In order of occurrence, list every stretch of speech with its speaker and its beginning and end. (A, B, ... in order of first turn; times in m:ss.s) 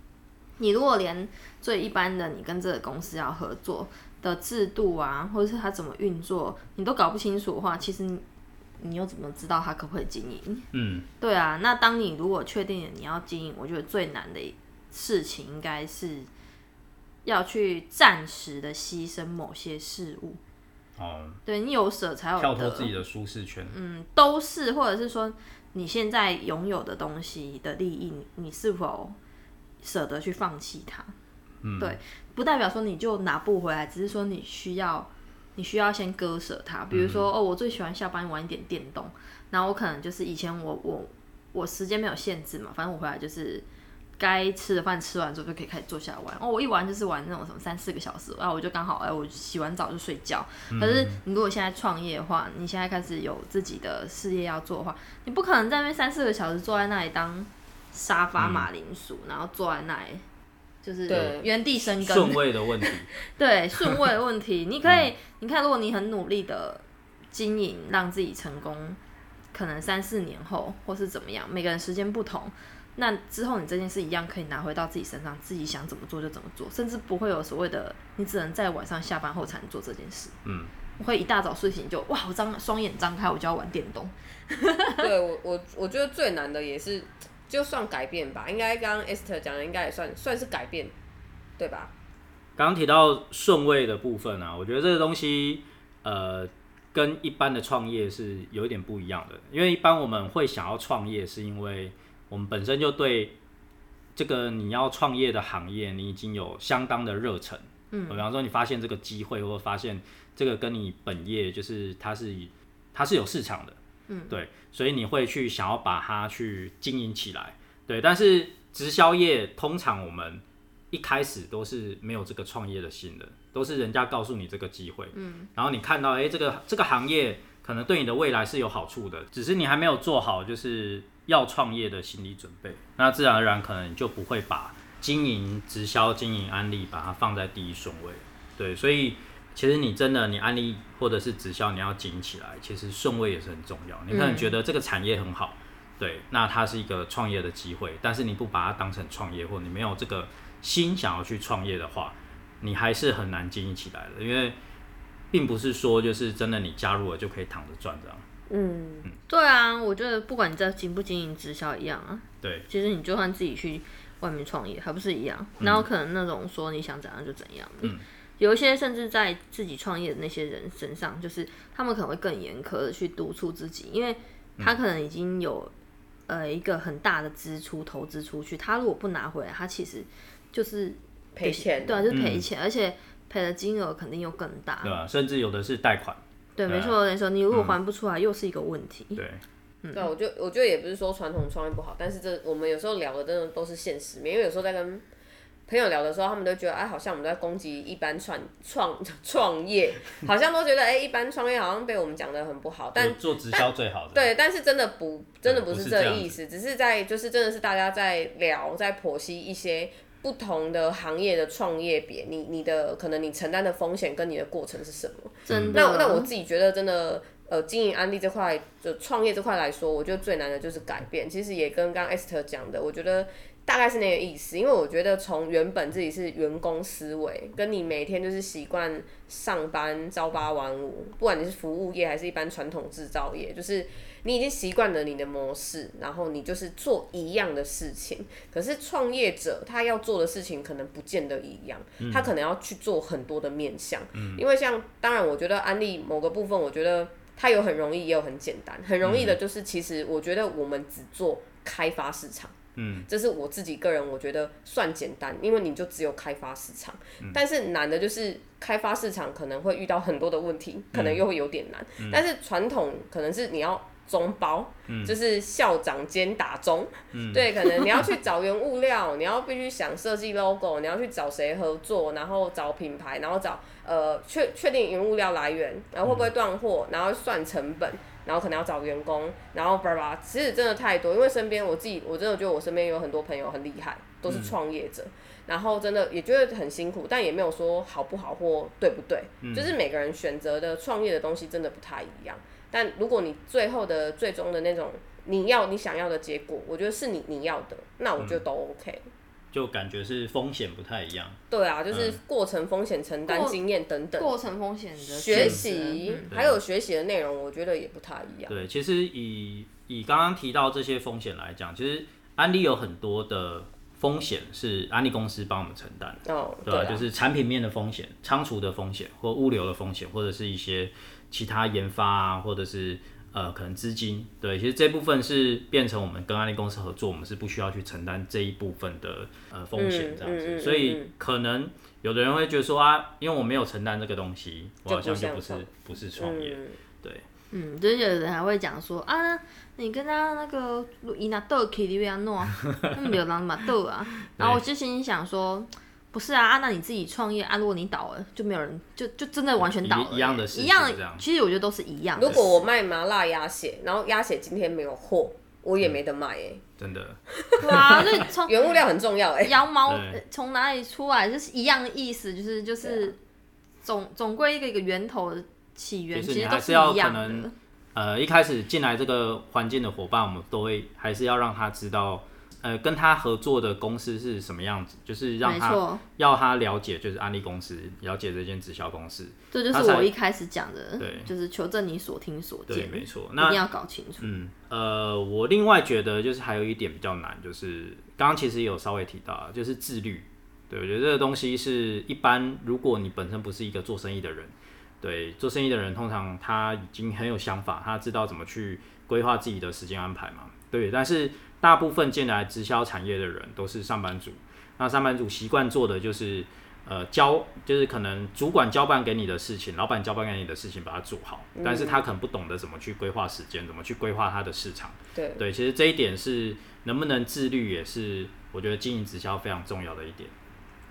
0:00.6-0:08.2 A
0:08.8-0:10.6 A
0:10.7-0:11.1 B
0:11.2-0:16.3 A
0:17.2-0:20.4 A
0:21.0-0:21.4 B
0:21.4-0:22.9 A
0:22.4-0:23.7 B
0:23.7-0:29.2 A
0:29.8-0:31.1 A
0:31.6-0:32.0 B
0:31.8-0:43.6 A
0:36.9-0:37.3 B
0:44.2-1:00.2 A
0:50.7-0:51.2 B
0:58.4-0:58.7 B
1:00.8-1:09.0 A
1:01.1-1:01.4 C
1:01.1-1:03.1 B
1:04.8-1:05.1 B
1:09.5-1:20.3 A
1:20.4-1:20.7 B
1:21.0-1:25.1 A
1:25.0-1:30.9 C
1:31.6-1:31.9 C
1:32.6-1:43.4 B
1:44.1-1:53.8 B
1:47.9-1:48.2 A
1:54.1-1:54.4 A
1:54.3-2:34.6 B
2:05.1-2:05.5 A
2:24.1-2:24.5 A
2:35.3-2:38.2 B
2:38.5-2:39.1 C
2:39.3-2:55.7 A
2:42.4-2:42.7 B
2:45.6-2:45.9 B
2:56.3-3:05.0 A
3:01.4-3:02.1 C
3:02.1-3:02.4 B
3:04.8-3:07.0 B
3:06.6-3:09.2 A
3:07.5-3:07.8 B
3:09.2-3:09.4 B
3:09.8-3:10.1 A
3:09.9-3:15.0 C
3:15.7-4:12.5 C
3:22.9-3:24.3 B
3:25.4-3:26.4 B
3:35.4-3:36.3 A
3:35.5-3:35.8 B
4:02.0-4:02.3 B
4:04.1-4:04.4 B
4:09.0-4:09.4 B
4:12.8-4:13.1 B
4:13.0-4:59.0 C
4:20.9-4:21.2 B
4:24.9-4:25.2 B
4:27.1-4:27.4 B
4:44.3-4:44.5 B
4:49.4-4:49.7 B
4:58.2-4:58.4 B
4:59.5-5:01.4 B
5:01.5-5:04.4 C
5:01.9-5:02.2 B
5:03.2-5:03.6 A
5:04.2-5:06.3 A
5:05.0-5:08.6 C
5:05.3-5:05.6 B
5:06.3-5:06.6 B
5:08.5-5:37.2 B
5:16.2-5:17.0 C
5:29.7-5:31.1 C
5:34.8-5:36.8 C
5:37.5-5:52.5 A
5:44.3-5:44.6 B
5:49.6-5:51.2 B
5:52.1-5:56.6 C
5:52.2-5:52.6 B
5:56.8-5:57.2 B
5:57.3-5:59.6 C
5:57.6-5:58.7 A
5:59.4-6:03.2 A
5:59.8-6:00.2 B
6:02.8-6:03.1 C
6:03.8-6:07.5 A
6:06.1-6:20.1 B
6:15.4-6:16.0 A
6:19.5-6:24.3 A
6:21.0-6:21.3 B
6:22.7-6:23.6 B
6:24.2-7:00.3 B
6:51.5-6:52.0 C
6:55.1-6:55.4 C